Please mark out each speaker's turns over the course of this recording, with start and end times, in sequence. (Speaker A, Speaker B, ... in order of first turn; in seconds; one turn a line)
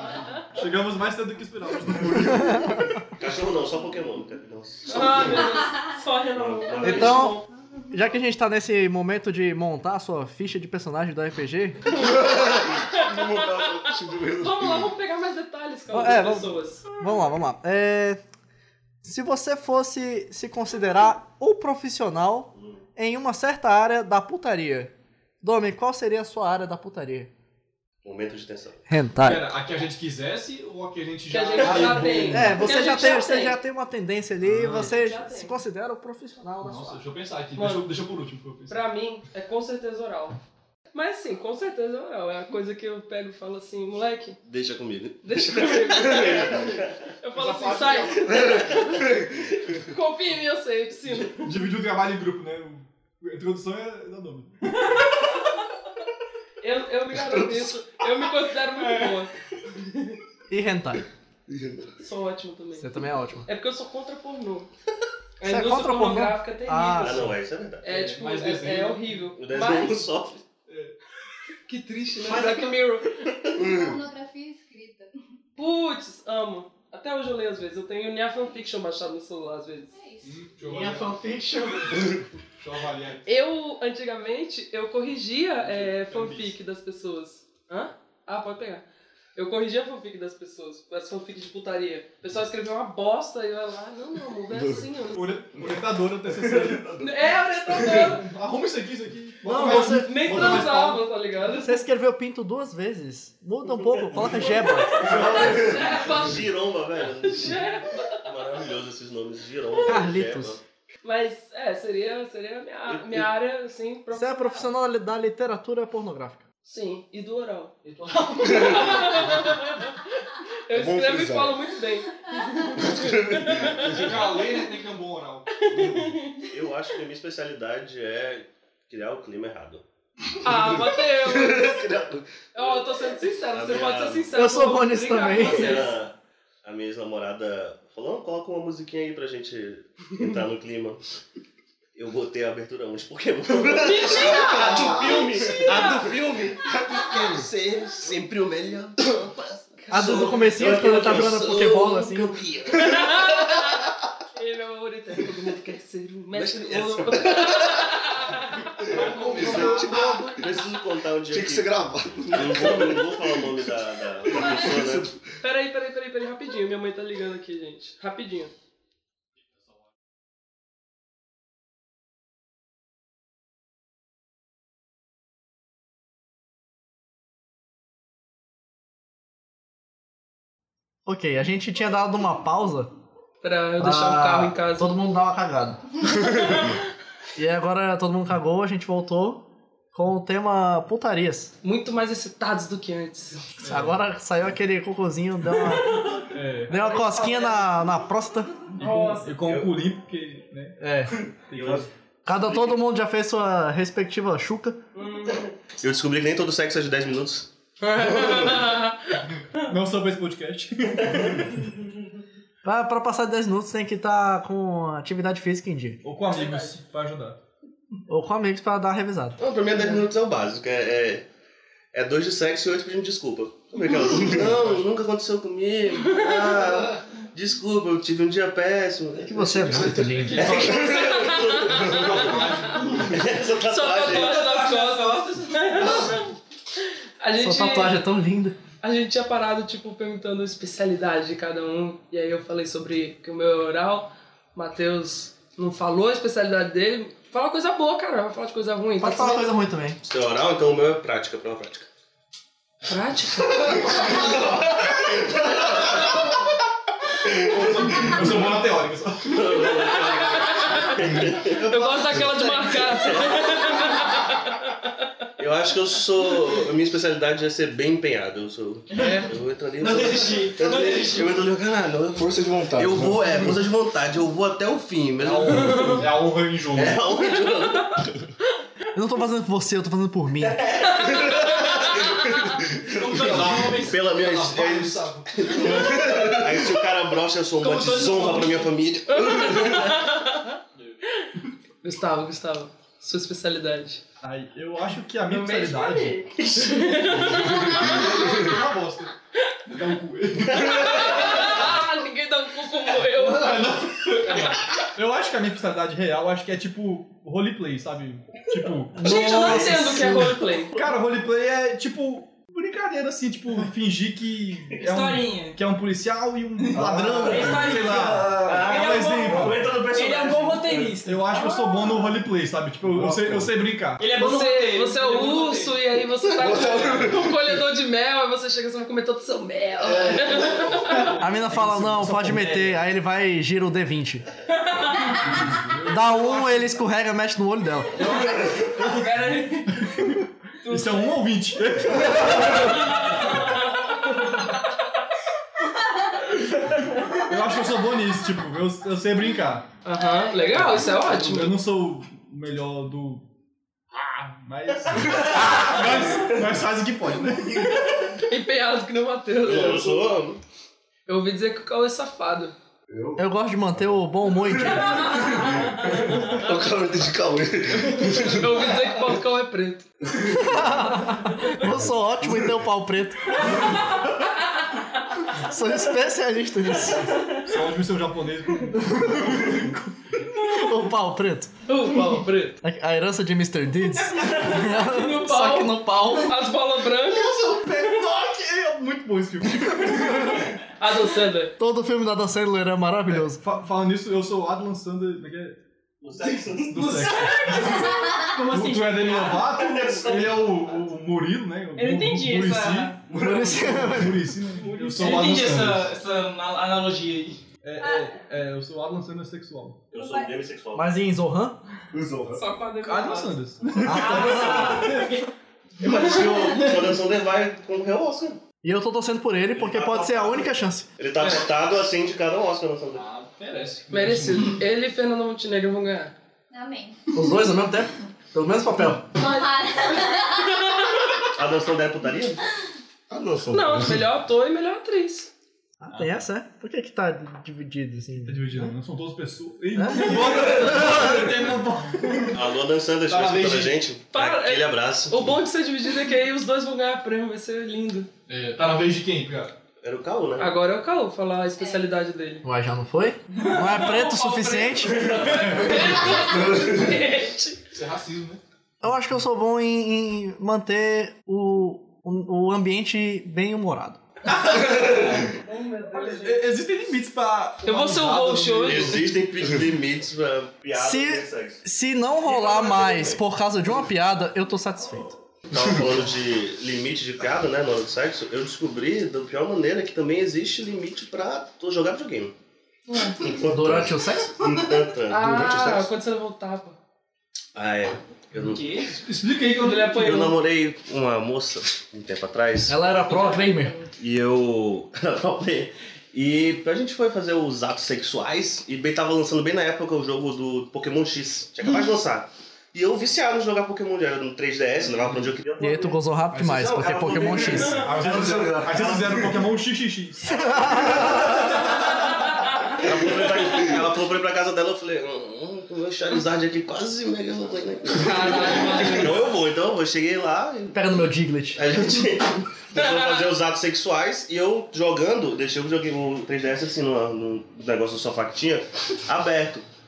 Speaker A: 0.5-2.9
Speaker B: 2.2-2.9
Speaker C: 3.2-5.4
Speaker D: 4.9-7.4
Speaker C: 6.3-7.3
Speaker B: 6.8-11.9
Speaker E: 11.9-14.9
Speaker D: 12.1-13.6
Speaker D: 14.4-16.8
Speaker B: 15.9-18.2
Speaker B: 19.0-27.3
Speaker C: 22.5-22.8
Speaker C: 28.0-28.8
Speaker B: 28.9-29.5
Speaker A: 29.2-32.9
Speaker D: 31.3-33.6
Speaker B: 31.8-37.0
Speaker A: 34.4-35.0
Speaker D: 34.7-35.6
Speaker A: 36.6-38.8
Speaker D: 37.5-37.9
Speaker D: 38.7-40.4
Speaker D: 40.9-44.4
Speaker C: 44.5-46.9
Speaker D: 45.2-49.1
Speaker A: 47.3-48.4
Speaker C: 48.3-48.9
Speaker E: 48.3-49.6
Speaker D: 49.9-51.5
Speaker A: 51.4-55.0
Speaker D: 56.6-60.1
Speaker E: 57.1-57.6
Speaker A: 58.8-59.1
Speaker B: 60.5-61.0
Speaker E: 61.5-61.9
Speaker D: 62.0-62.9
Speaker B: 62.8-63.5
Speaker D: 63.5-64.7
Speaker D: 65.4-67.2
Speaker B: 65.4-67.3
Speaker C: 67.0-67.8
Speaker D: 67.8-70.0
Speaker A: 67.8-69.3
Speaker C: 69.4-70.4
Speaker A: 70.7-70.9
Speaker D: 71.7-73.2
Speaker F: 72.3-72.6
Speaker E: 73.5-73.9
Speaker G: 73.6-75.1
Speaker D: 75.5-79.9
Speaker G: 79.9-80.3
Speaker A: 80.2-83.3
Speaker B: 80.7-82.0
Speaker D: 83.2-95.4
Speaker A: 85.6-86.5
Speaker E: 94.5-94.8
Speaker A: 95.1-97.0
Speaker E: 95.5-98.1
Speaker D: 97.0-98.2
Speaker A: 97.8-101.0
Speaker B: 99.4-100.6
Speaker D: 99.5-101.8
Speaker B: 101.6-105.3
Speaker D: 104.8-106.5
Speaker E: 104.9-106.3
Speaker C: 105.7-110.6
Speaker D: 107.2-108.1
Speaker B: 109.8-110.6
Speaker D: 111.0-114.7
Speaker C: 112.9-113.3
Speaker B: 114.1-116.4
Speaker D: 116.6-120.0
Speaker A: 117.8-119.6
Speaker D: 120.7-124.1
Speaker E: 120.7-121.6
Speaker E: 122.8-124.4
Speaker A: 123.8-125.7
Speaker D: 125.6-126.5
Speaker C: 126.5-129.8
Speaker D: 130.4-131.8
Speaker E: 130.5-132.3
Speaker D: 132.5-135.9
Speaker C: 133.5-134.3
Speaker B: 134.3-135.8
Speaker C: 135.2-141.0
Speaker C: 141.9-153.0
Speaker D: 143.7-146.0
Speaker E: 143.9-145.9
Speaker A: 144.5-145.9
Speaker E: 146.6-147.5
Speaker B: 149.9-152.4
Speaker D: 152.8-153.8
Speaker D: 154.3-160.3
Speaker C: 156.3-157.7
Speaker E: 158.9-160.6
Speaker A: 158.9-160.2
Speaker C: 160.4-161.7
Speaker E: 161.3-163.7
Speaker C: 162.3-165.1
Speaker E: 164.2-165.2
Speaker D: 165.4-168.5
Speaker B: 181.1-182.9
Speaker D: 183.4-185.0
Speaker B: 183.8-185.8
Speaker D: 186.4-186.7
Speaker B: 187.3-191.5
Speaker D: 191.6-193.4
Speaker A: 193.6-194.0
Speaker B: 193.6-196.1
Speaker D: 195.9-196.2
Speaker A: 196.3-196.8
Speaker B: 196.7-198.7
Speaker D: 196.7-197.7
Speaker A: 198.7-200.9
Speaker D: 198.8-199.3
Speaker B: 200.8-201.2
Speaker A: 201.5-201.9
Speaker C: 201.6-201.8
Speaker B: 202.2-204.8
Speaker D: 204.9-205.5
Speaker C: 205.8-207.5
Speaker D: 207.8-209.2
Speaker A: 209.3-211.7
Speaker B: 212.6-216.0
Speaker A: 216.0-217.4
Speaker B: 218.1-219.4
Speaker C: 219.4-221.2
Speaker C: 221.9-234.4
Speaker E: 223.9-224.5
Speaker A: 224.5-224.8
Speaker D: 226.0-226.5
Speaker B: 229.2-230.6
Speaker A: 230.0-230.9
Speaker D: 230.5-232.1
Speaker E: 231.6-232.6
Speaker A: 231.9-233.4
Speaker D: 233.7-236.2
Speaker F: 234.0-236.3
Speaker D: 237.2-238.0
Speaker B: 237.4-238.6
Speaker D: 238.8-249.5
Speaker B: 249.0-250.0
Speaker C: 250.0-251.9
Speaker D: 252.9-254.4
Speaker C: 254.1-256.1
Speaker A: 257.4-259.7
Speaker C: 257.6-258.1
Speaker E: 258.1-258.4
Speaker C: 259.3-261.6
Speaker A: 261.0-261.5
Speaker D: 261.6-264.7
Speaker C: 263.0-263.6
Speaker C: 265.4-276.1
Speaker F: 268.9-271.4
Speaker E: 272.1-273.6
Speaker A: 275.2-277.0
Speaker C: 276.7-278.1
Speaker D: 277.4-278.0
Speaker B: 278.9-280.8
Speaker D: 280.9-282.1
Speaker E: 281.4-283.7
Speaker F: 283.0-284.1
Speaker A: 283.0-285.8
Speaker C: 283.7-290.0
Speaker E: 285.5-286.8
Speaker F: 287.6-288.7
Speaker D: 289.1-290.4
Speaker D: 291.8-294.0
Speaker A: 294.2-296.3
Speaker D: 295.2-298.5
Speaker C: 296.4-297.1
Speaker A: 297.0-299.1
Speaker A: 299.7-301.7
Speaker D: 300.5-304.6
Speaker A: 303.0-309.8
Speaker B: 308.9-310.3
Speaker D: 309.0-310.7
Speaker A: 310.7-319.8
Speaker F: 314.8-315.6
Speaker F: 316.6-322.1
Speaker E: 316.7-318.7
Speaker C: 318.4-320.9
Speaker A: 321.0-324.1
Speaker E: 322.8-323.5
Speaker F: 324.0-325.8
Speaker D: 324.1-331.1
Speaker E: 326.2-327.6
Speaker A: 330.1-332.8
Speaker B: 331.2-334.2
Speaker A: 335.2-336.7
Speaker B: 335.8-338.1
Speaker A: 338.1-338.4
Speaker D: 338.7-339.9
Speaker F: 338.8-339.1
Speaker A: 339.8-343.3
Speaker D: 340.6-341.1
Speaker A: 347.1-349.6
Speaker D: 349.8-351.6
Speaker A: 350.5-353.2
Speaker A: 353.9-358.1
Speaker D: 358.2-360.2
Speaker C: 359.4-360.4
Speaker D: 361.1-362.5
Speaker E: 362.9-368.9
Speaker B: 363.2-365.3
Speaker D: 368.1-369.9
Speaker E: 370.1-371.0
Speaker B: 370.3-373.6
Speaker E: 371.6-372.5
Speaker B: 375.4-377.3
Speaker A: 377.3-379.8
Speaker B: 378.8-379.8
Speaker B: 380.4-381.5
Speaker D: 381.7-382.6
Speaker B: 382.6-386.4
Speaker D: 384.2-387.8
Speaker A: 387.1-390.5
Speaker D: 390.8-391.5
Speaker B: 391.6-393.4
Speaker A: 393.1-395.6
Speaker C: 396.0-397.2
Speaker A: 396.6-405.9
Speaker F: 396.8-399.6
Speaker C: 399.5-400.8
Speaker F: 401.7-403.0
Speaker B: 403.1-404.3
Speaker E: 403.2-403.5
Speaker D: 404.6-405.3
Speaker F: 404.9-407.4
Speaker A: 407.6-409.8
Speaker C: 409.9-410.9
Speaker G: 409.9-410.3
Speaker B: 410.7-411.6
Speaker E: 411.9-412.4
Speaker D: 412.4-413.4
Speaker A: 412.8-415.2
Speaker B: 413.8-414.9
Speaker F: 413.9-415.3
Speaker C: 415.8-418.4
Speaker B: 418.6-420.9
Speaker C: 419.5-423.0
Speaker A: 421.2-421.5
Speaker A: 422.9-424.6
Speaker D: 423.9-426.1
Speaker G: 426.5-426.9
Speaker B: 427.1-429.1
Speaker G: 429.2-430.5
Speaker C: 431.3-432.4
Speaker E: 433.1-434.1
Speaker D: 433.5-435.3
Speaker B: 435.8-438.7
Speaker A: 435.9-436.1
Speaker A: 438.2-442.4
Speaker B: 439.7-441.3
Speaker C: 442.3-445.4
Speaker A: 443.1-443.8
Speaker D: 444.1-448.1
Speaker A: 448.3-449.5
Speaker C: 449.8-450.5
Speaker D: 450.4-452.4
Speaker B: 452.4-455.2
Speaker D: 453.4-457.6
Speaker A: 455.3-456.0
Speaker E: 456.3-456.9
Speaker A: 457.7-458.4
Speaker B: 458.8-464.0
Speaker A: 464.2-465.2
Speaker D: 464.7-466.4
Speaker A: 465.9-469.1
Speaker D: 467.6-469.0
Speaker C: 468.6-471.6
Speaker B: 470.7-475.1
Speaker A: 472.4-473.1
Speaker C: 475.5-482.3
Speaker C: 483.2-485.9
Speaker B: 483.4-484.6
Speaker D: 485.1-486.8
Speaker C: 487.5-488.6
Speaker F: 488.3-488.9
Speaker A: 488.9-490.2
Speaker D: 489.5-490.4
Speaker C: 489.9-492.8
Speaker B: 492.7-493.8
Speaker C: 494.0-507.8
Speaker B: 505.6-507.9
Speaker A: 506.3-506.7
Speaker A: 507.6-511.1
Speaker E: 507.9-509.5
Speaker B: 510.4-511.4
Speaker C: 512.8-521.0
Speaker E: 512.8-513.5
Speaker D: 517.9-519.2
Speaker B: 520.7-521.7
Speaker C: 521.5-529.6